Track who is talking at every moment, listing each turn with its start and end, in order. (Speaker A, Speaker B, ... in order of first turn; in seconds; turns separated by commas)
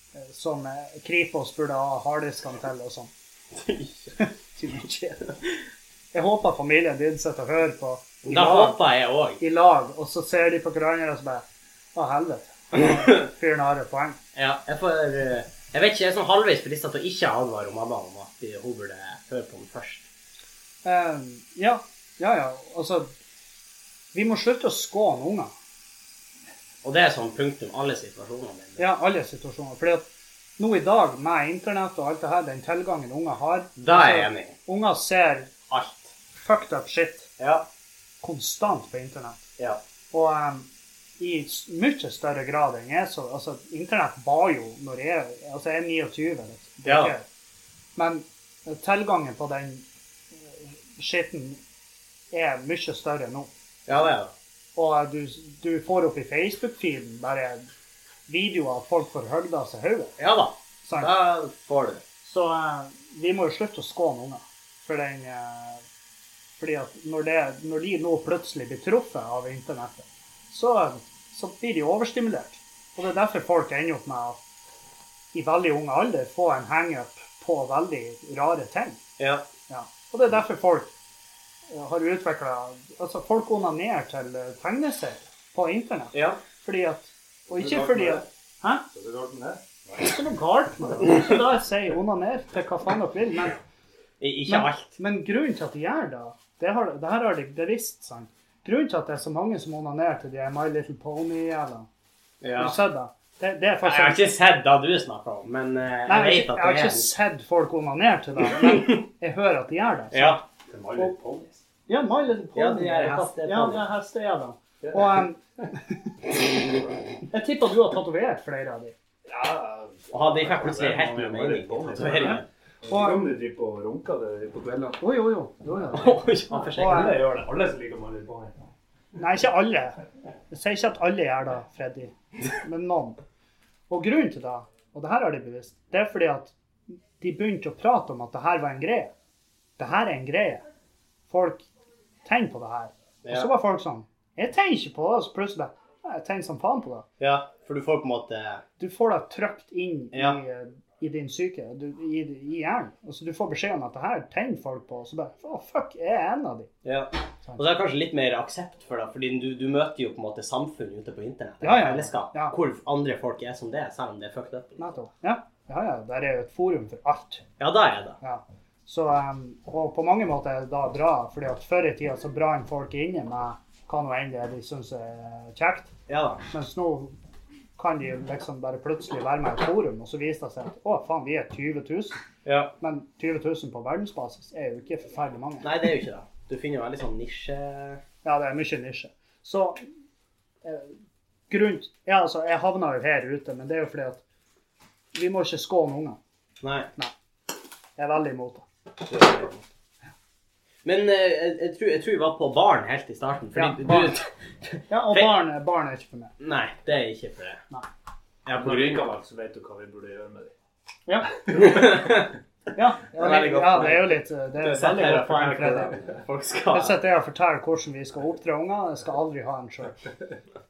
Speaker A: 0.2-3.1, Speaker B: 3.5-4.1, Speaker A: 4.2-5.3, Speaker A: 6.1-8.8, Speaker B: 8.3-9.4, Speaker A: 9.4-11.4, Speaker A: 11.9-14.2, Speaker B: 12.8-13.2, Speaker B: 14.3-20.1, Speaker A: 20.8-23.1, Speaker A: 24.1-25.5, Speaker B: 26.8-28.8, Speaker A: 28.8-30.1, Speaker A: 30.6-35.5, Speaker B: 33.8-34.5, Speaker B: 35.7-36.1, Speaker A: 36.3-37.3, Speaker B: 37.4-37.7, Speaker A: 38.2-39.4, Speaker A: 40.1-40.7, Speaker A: 41.2-47.2, Speaker B: 46.9-47.1, Speaker A: 48.0-49.9, Speaker A: 50.5-51.6, Speaker A: 52.3-53.5, Speaker B: 53.9-54.3, Speaker A: 54.8-57.6, Speaker A: 58.3-60.1, Speaker B: 60.2-62.0, Speaker A: 60.8-61.1, Speaker A: 62.2-65.8, Speaker A: 66.6-74.4, Speaker A: 75.3-79.0, Speaker B: 79.2-79.5, Speaker A: 79.7-80.9, Speaker A: 81.7-88.8, Speaker B: 86.1-86.4, Speaker C: 87.5-88.2, Speaker C: 88.9-90.2, Speaker A: 90.0-93.6, Speaker B: 94.2-94.9, Speaker A: 94.5-101.9, Speaker B: 102.4-102.8, Speaker A: 102.6-104.2, Speaker B: 103.8-107.1, Speaker A: 106.1-110.4, Speaker B: 108.5-109.0, Speaker B: 110.1-110.4, Speaker C: 110.7-111.6, Speaker A: 111.9-115.8, Speaker B: 112.5-113.9, Speaker C: 114.8-115.2, Speaker A: 117.3-118.9, Speaker C: 119.3-125.0, Speaker B: 120.1-122.5, Speaker A: 122.1-123.3, Speaker A: 125.0-127.2, Speaker B: 125.9-127.1, Speaker C: 126.5-128.7, Speaker A: 129.2-130.0, Speaker A: 130.5-133.2, Speaker A: 133.9-136.5, Speaker A: 137.2-139.1, Speaker A: 139.8-140.6, Speaker A: 141.3-141.7, Speaker A: 142.2-147.1, Speaker B: 143.2-143.5, Speaker B: 147.2-148.6, Speaker A: 148.8-156.7, Speaker B: 150.1-150.4, Speaker B: 156.8-164.8, Speaker A: 161.6-162.6, Speaker A: 164.8-167.4, Speaker B: 167.6-168.2, Speaker A: 168.2-175.9, Speaker B: 176.1-176.4, Speaker A: 176.5-177.2, Speaker A: 177.8-182.2, Speaker B: 182.4-182.7, Speaker A: 182.8-185.7, Speaker B: 185.6-188.0, Speaker A: 188.2-189.8, Speaker A: 190.6-190.9, Speaker A: 191.5-194.2, Speaker A: 195.1-196.2, Speaker B: 196.6-196.9, Speaker A: 198.0-198.6, Speaker B: 199.1-199.6, Speaker B: 200.8-205.3, Speaker A: 203.6-204.2, Speaker A: 204.9-206.3, Speaker B: 206.4-207.6, Speaker B: 208.5-209.1, Speaker C: 208.5-210.5, Speaker A: 211.1-211.4, Speaker B: 211.5-212.3, Speaker A: 212.8-216.0, Speaker B: 213.1-217.0, Speaker A: 216.7-220.0